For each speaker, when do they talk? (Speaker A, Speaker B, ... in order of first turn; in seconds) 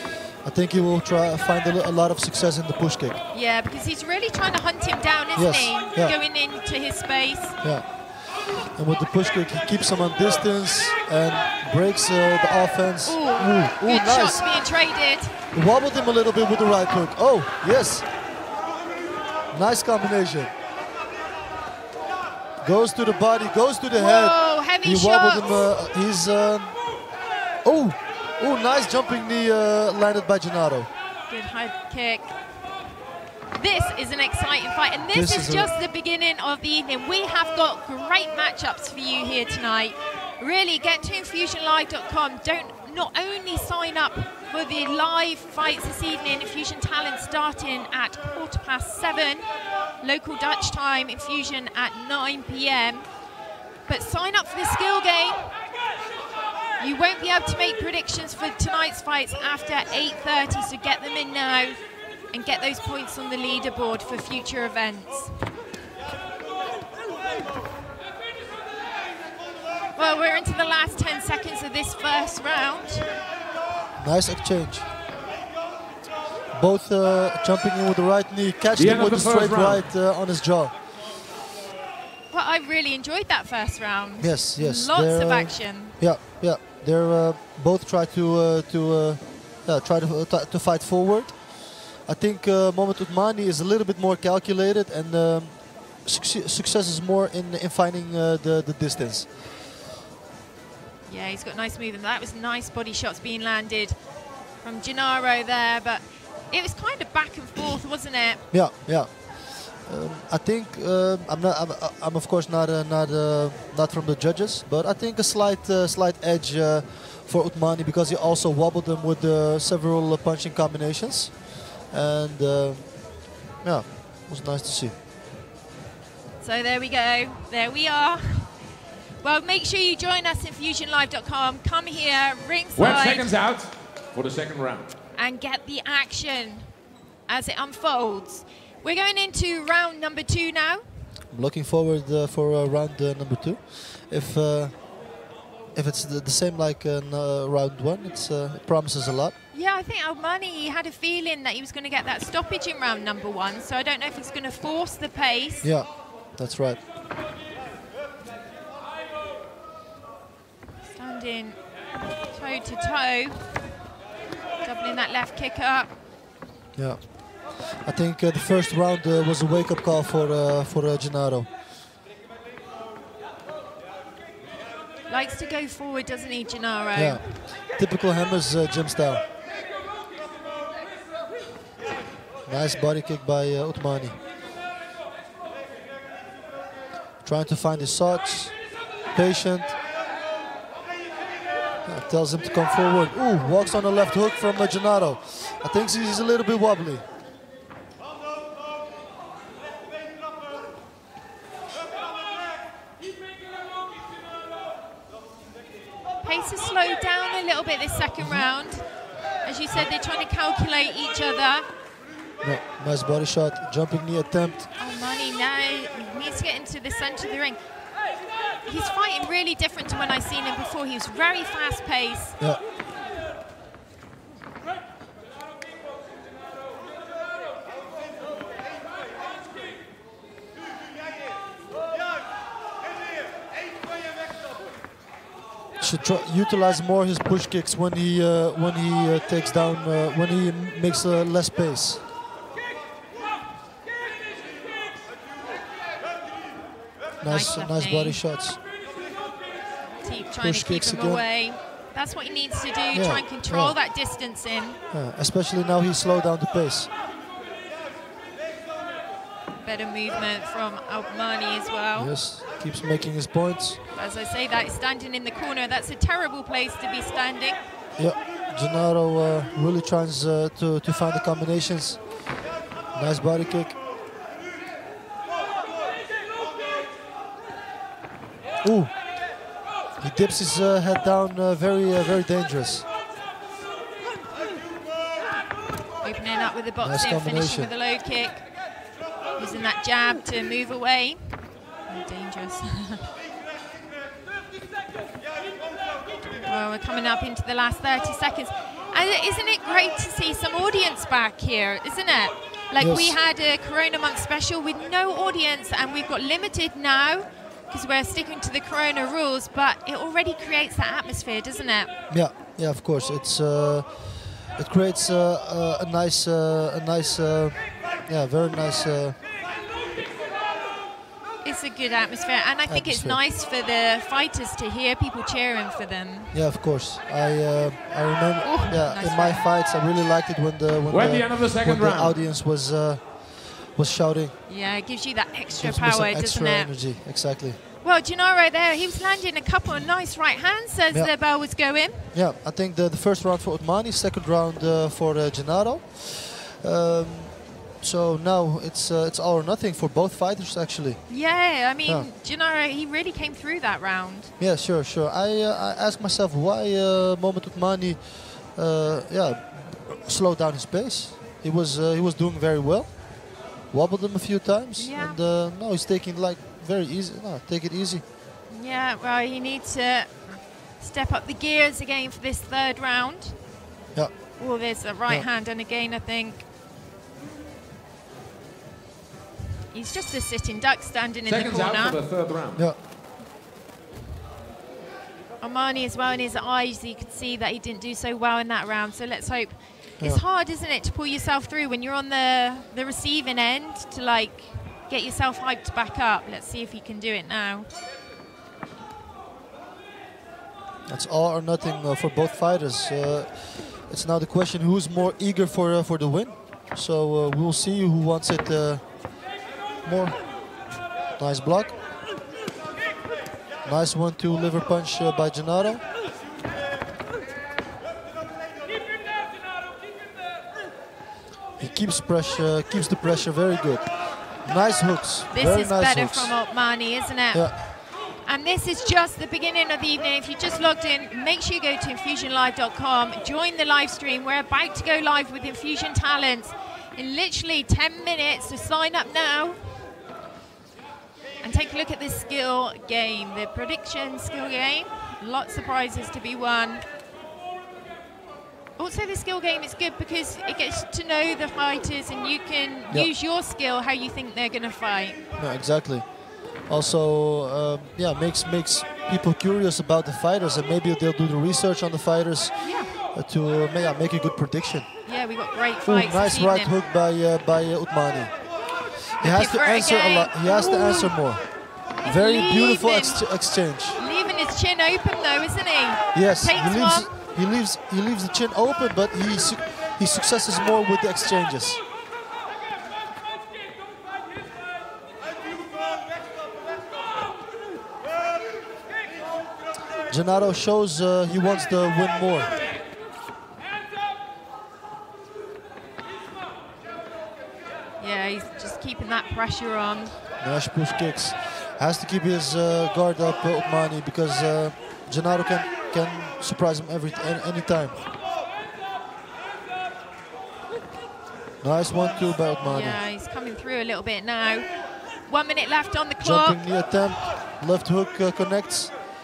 Speaker A: 0.4-3.2, 5.3-6.2, 7.6-14.5, 15.5-18.1, 19.5-20.5, 22.6-26.8, 27.6-30.9, 35.1-35.7, 74.0-74.9, 76.5-80.8, 84.2-99.3, 108.5-125.0, 141.3-144.9, 145.7-149.3, 155.6-156.8, 166.8-171.5, 176.9-179.2, 182.5-184.2, 187.2-188.6, 189.1-189.8, 191.8-197.1, 212.4-214.7, 235.8-242.0, 247.2-248.6, 250.4-251.2, 252.9-253.8, 254.9-256.9, 262.0-263.8, 268.0-272.1, 272.9-273.8, 278.6-279.0, 280.0-282.9, 286.8-287.7, 302.8-303.2, 312.1-319.2, 322.7-323.2, 326.3-334.4, 335.6-337.6, 342.1-351.1, 354.4-368.0, 373.9-374.4, 400.9-409.2, 409.8-410.4, 411.1-411.8, 413.6-415.9, 421.6-426.4, 455.4-465.0, 465.9-468.5, 469.1-474.0, 476.1-481.8, 490.1-492.5, 500.4-508.0, 511.6-513.0, 516.2-519.0
Speaker B: 3.3-7.6, 13.1-15.3, 23.9-25.7, 31.3-32.4, 33.5-49.5, 50.0-53.1, 53.9-55.6, 56.8-61.8, 62.3-65.5, 70.0-73.1, 82.3-86.0, 101.1-104.0, 104.6-108.4, 126.4-128.5, 129.2-133.3, 135.2-136.7, 137.3-140.8, 149.5-155.7, 160.9-161.6, 162.2-163.7, 164.6-165.9, 175.1-177.2, 206.2-208.8, 209.4-211.7, 214.8-217.6, 218.7-222.4, 247.2-248.2, 250.0-254.8, 259.6-262.1, 263.9-267.6, 286.0-288.5, 289.4-293.1, 296.4-311.9, 321.4-326.3, 328.4-329.5, 334.5-336.7, 337.8-342.1, 351.1-354.3, 364.8-365.2, 368.5-373.4, 374.4-376.5, 379.7-382.0, 385.4-397.7, 425.3-439.8, 441.4-446.8, 448.8-455.2, 462.6-462.9, 465.1-466.7, 469.2-471.2, 472.0-477.1, 498.0-500.1, 512.6-514.7, 515.3-516.6
Speaker C: 78.8-79.8, 132.8-134.9, 330.9-332.1, 381.3-382.6